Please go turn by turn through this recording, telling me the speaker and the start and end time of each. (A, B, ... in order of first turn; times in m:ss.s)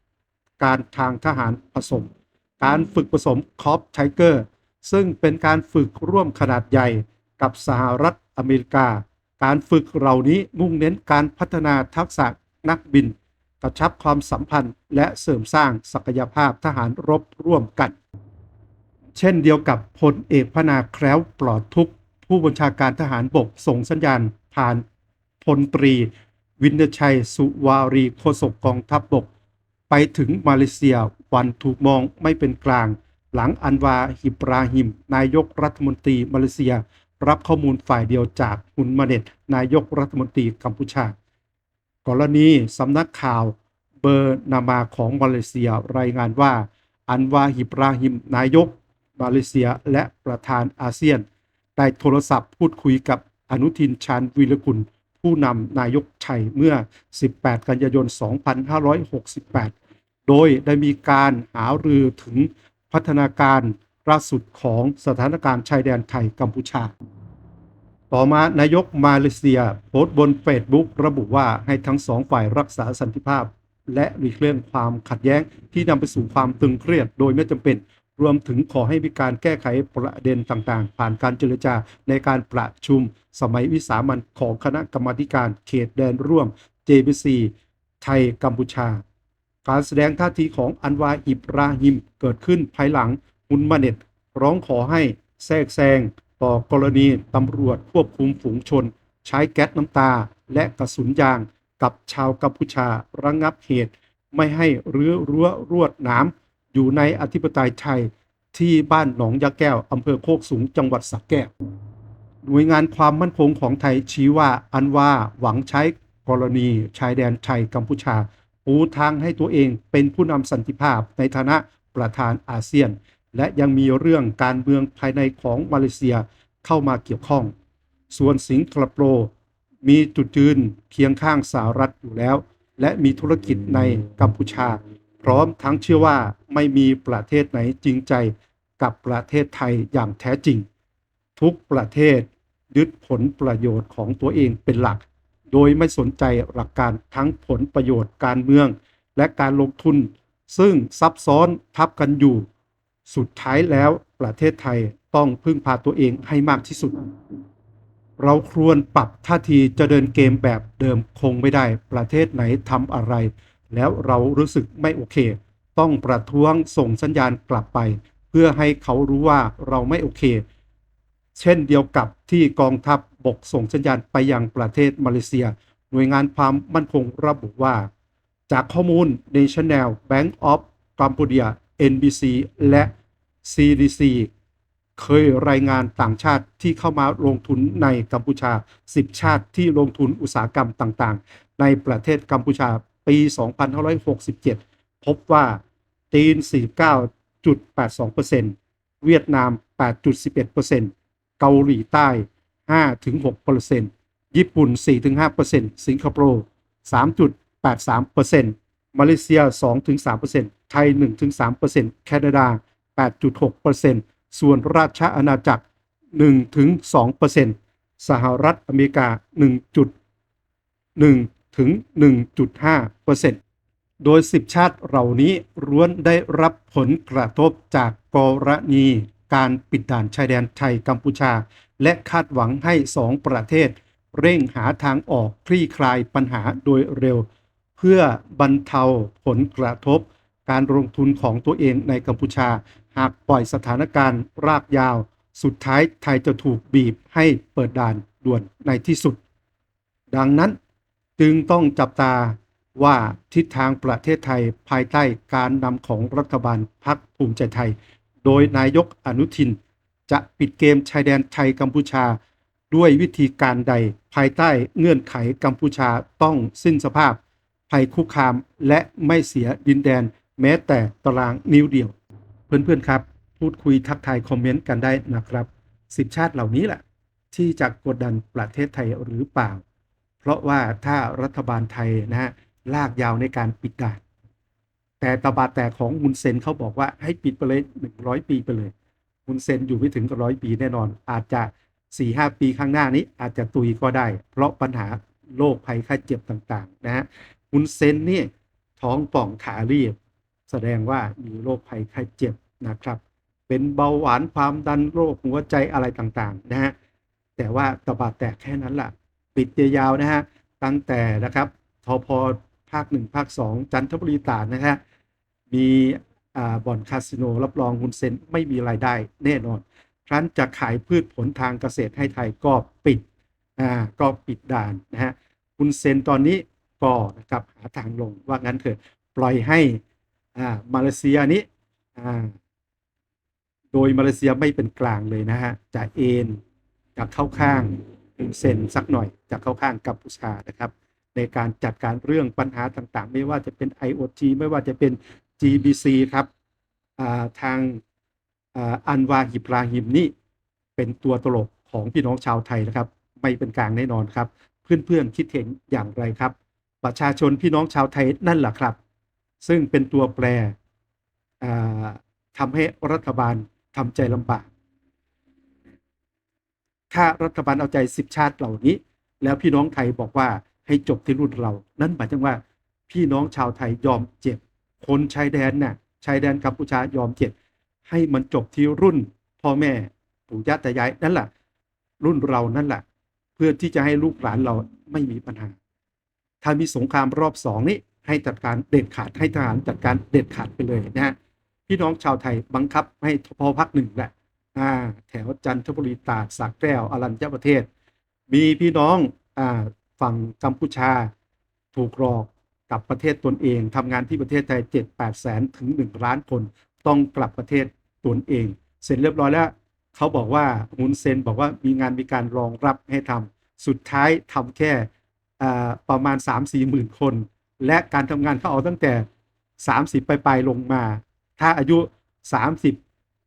0:00.6-0:18.0 A
0:19.2-0:24.8 A
0:25.4-0:29.3 A
0:29.9-0:41.1 A
0:42.0-0:59.7 A
1:00.3-1:06.9 A
1:08.1-1:29.0 A
1:29.6-1:51.5 A
1:52.4-2:07.5 A
2:08.1-2:09.3 A
2:09.8-2:20.7 A
2:21.4-2:32.5 A
2:33.1-2:37.1 A
2:38.2-2:50.4 A
2:51.3-2:57.9 A
2:58.5-3:02.9 A
3:03.4-3:04.3 A
3:05.0-3:39.9 A
3:41.0-3:43.4 A
3:44.0-4:09.2 A
4:10.1-4:10.6 A
4:11.2-4:22.2 A
4:22.7-4:31.9 A
4:32.5-4:39.6 A
4:40.2-4:44.0 A
4:45.0-4:48.7 A
4:49.2-5:00.0 A
5:00.5-5:06.7 A
5:07.4-5:14.8 A
5:15.5-5:23.0 A
5:23.6-5:29.8 A
5:30.3-5:32.3 A
5:33.7-5:36.4 A
5:37.0-5:46.3 A
5:47.0-5:47.8 A
5:48.5-5:50.1 A
5:50.8-5:58.8 A
5:59.4-6:00.5 A
6:01.4-6:04.5 A
6:06.9-6:17.3 A
6:17.9-6:21.3 A
6:22.0-6:22.8 A
6:23.4-6:25.6 A
6:26.4-6:31.1 A
6:31.7-6:37.7 A
6:38.3-6:41.1 A
6:41.7-6:59.0 A
6:59.6-7:02.8 A